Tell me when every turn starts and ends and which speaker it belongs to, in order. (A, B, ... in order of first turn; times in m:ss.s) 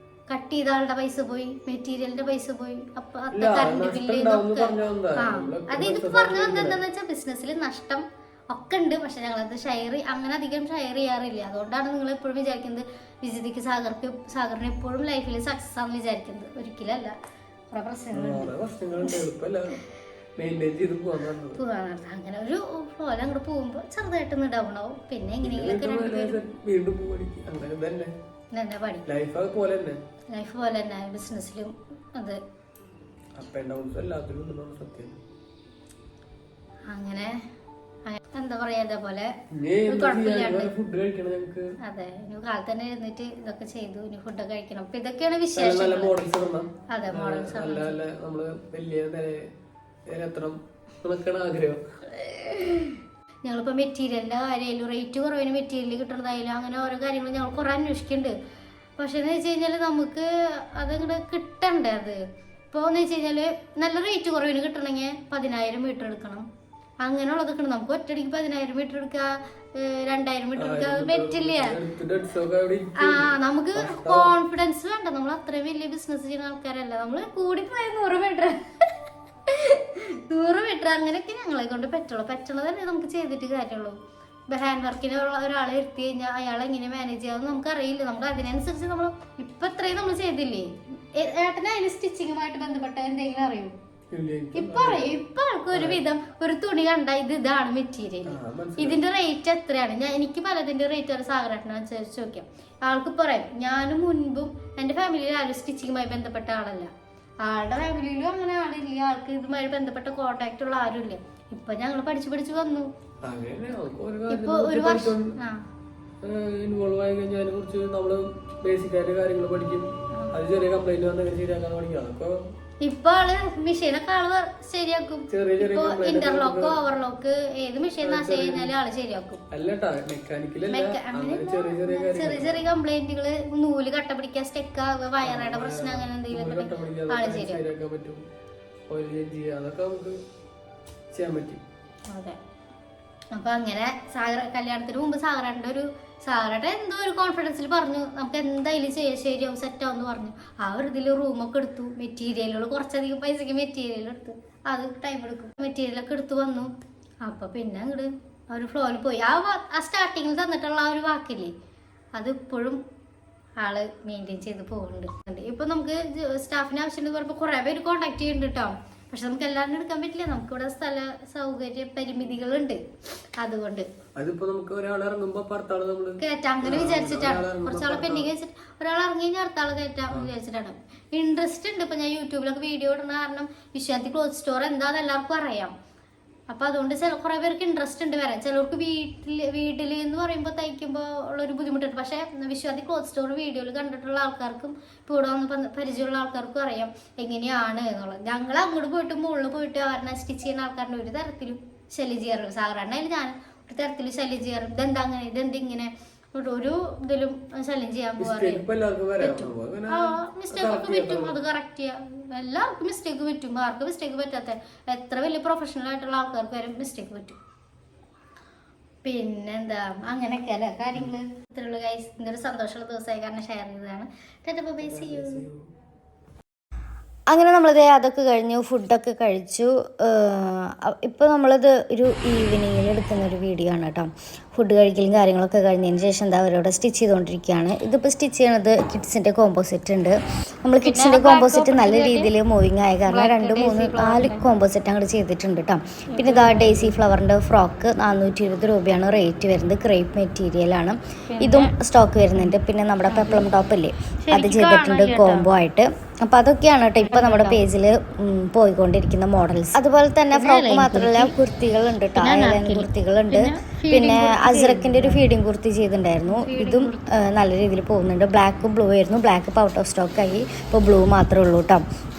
0:00.3-0:17.1 A
0:03.3-0:06.8 B
0:17.7-0:18.5 A
0:18.1-0:19.8 B
0:20.4-0:21.6 B
0:21.5-0:26.4 A
0:25.4-0:28.1 B
0:28.5-0:29.0 A
0:29.1-0:30.0 B
0:30.3-0:32.4 A
0:33.4-0:35.2 B
0:36.9-0:37.4 A
0:38.0-0:39.3 A
0:39.5-0:41.6 B
0:39.8-0:40.7 A
0:41.8-0:46.2 A
0:45.6-0:49.5 B
0:46.9-0:48.0 A
0:50.1-0:51.8 B
0:52.2-0:58.3 A
0:59.0-1:06.4 A
1:07.0-1:11.7 A
1:10.6-1:14.3 B
1:13.0-1:18.9 A
1:19.5-1:24.0 A
1:24.5-1:33.7 A
1:34.1-1:35.1 B
1:34.6-1:46.9 A
1:35.7-1:36.0 B
1:38.3-1:39.0 B
1:47.4-1:52.9 A
1:53.2-1:55.3 B
1:54.3-1:55.6 A
1:56.2-2:02.4 B
2:02.8-2:09.4 A
2:05.3-2:06.8 B
2:08.0-2:08.7 B
2:09.5-2:12.6 B
2:10.7-2:17.6 A
2:15.2-2:18.2 B
2:18.9-2:20.2 B
2:21.1-2:21.6 B
2:22.1-2:22.4 A
2:23.3-2:36.7 A
2:37.2-2:41.5 A
2:42.1-2:42.8 A
2:43.6-2:52.8 A
2:53.4-2:53.9 A
2:54.2-2:58.3 B
2:56.2-3:05.7 A
3:06.5-3:28.6 A
3:28.2-3:31.4 B
3:29.2-3:37.4 A
3:39.0-3:45.4 A
3:44.8-3:45.6 B
3:47.3-4:31.8 C
4:00.8-4:02.3 A
4:03.1-4:04.5 A
4:06.1-4:07.0 A
4:11.3-4:11.7 A
4:13.0-4:13.5 A
4:14.2-4:15.5 A
4:17.0-4:17.6 A
4:20.3-4:21.3 A
4:22.1-4:25.2 A
4:26.3-4:27.2 A